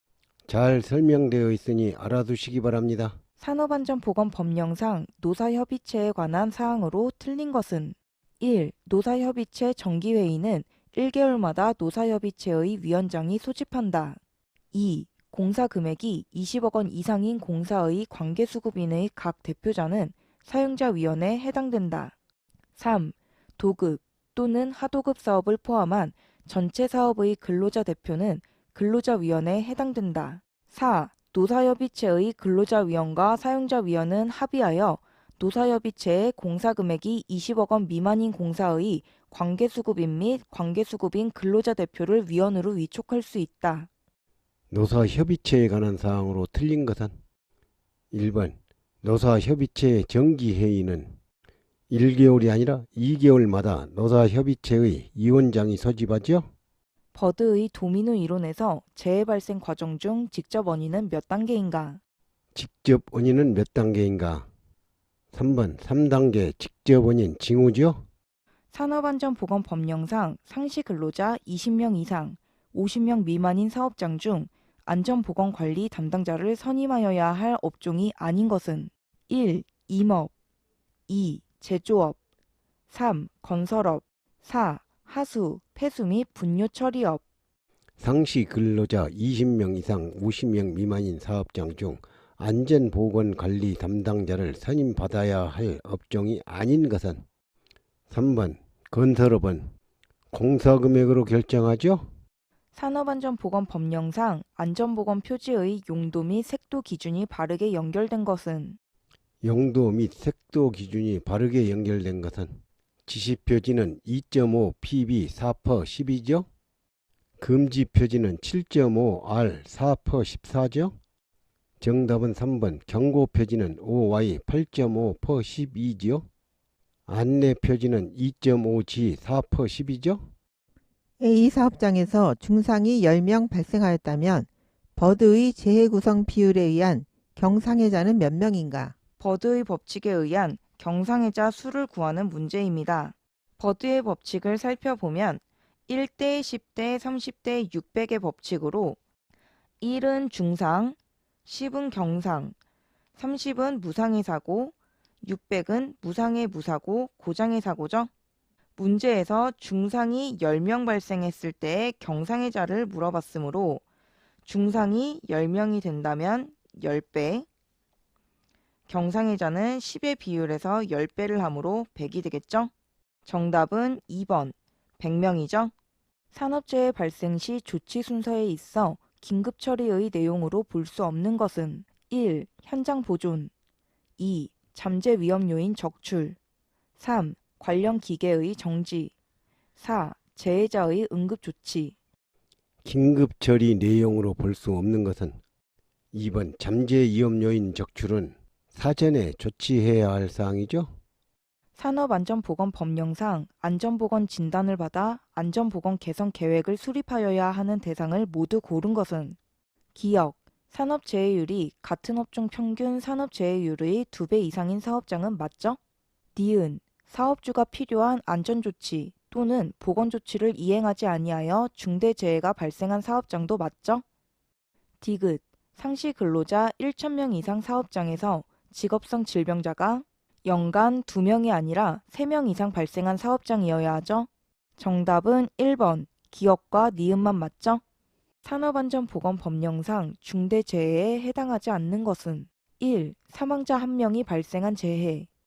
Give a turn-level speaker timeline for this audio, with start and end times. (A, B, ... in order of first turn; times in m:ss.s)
0:00.5-0:03.2 A
0:03.4-0:14.2 B
0:14.7-0:22.1 B
0:22.8-0:43.9 B
0:44.7-0:47.1 A
0:48.1-0:51.2 A
0:51.9-0:56.5 A
0:57.1-1:02.0 B
1:02.5-1:04.5 A
1:05.3-1:08.0 A
1:08.7-1:20.3 B
1:21.1-1:22.2 B
1:22.9-1:27.2 B
1:28.0-1:37.2 A
1:38.1-1:39.7 A
1:40.3-1:42.1 A
1:42.7-1:48.8 B
1:49.4-1:56.5 A
1:57.4-2:00.9 A
2:01.8-2:06.3 A
2:07.1-2:10.3 A
2:11.2-2:18.9 C
2:19.2-2:29.0 B
2:29.8-2:32.5 B
2:33.2-2:38.1 B
2:38.8-2:43.8 B
2:44.4-2:47.4 B
2:48.9-2:52.7 B
2:53.2-2:55.7 B
2:56.3-3:03.5 B
3:04.2-3:06.4 B
3:07.0-3:09.1 B
3:09.8-3:11.9 B
3:12.8-3:15.4 A
3:16.1-3:20.9 A
3:21.8-3:29.4 B
3:29.9-3:35.8 B
3:36.3-3:44.0 B
3:45.0-3:57.8 B
3:58.4-4:05.3 B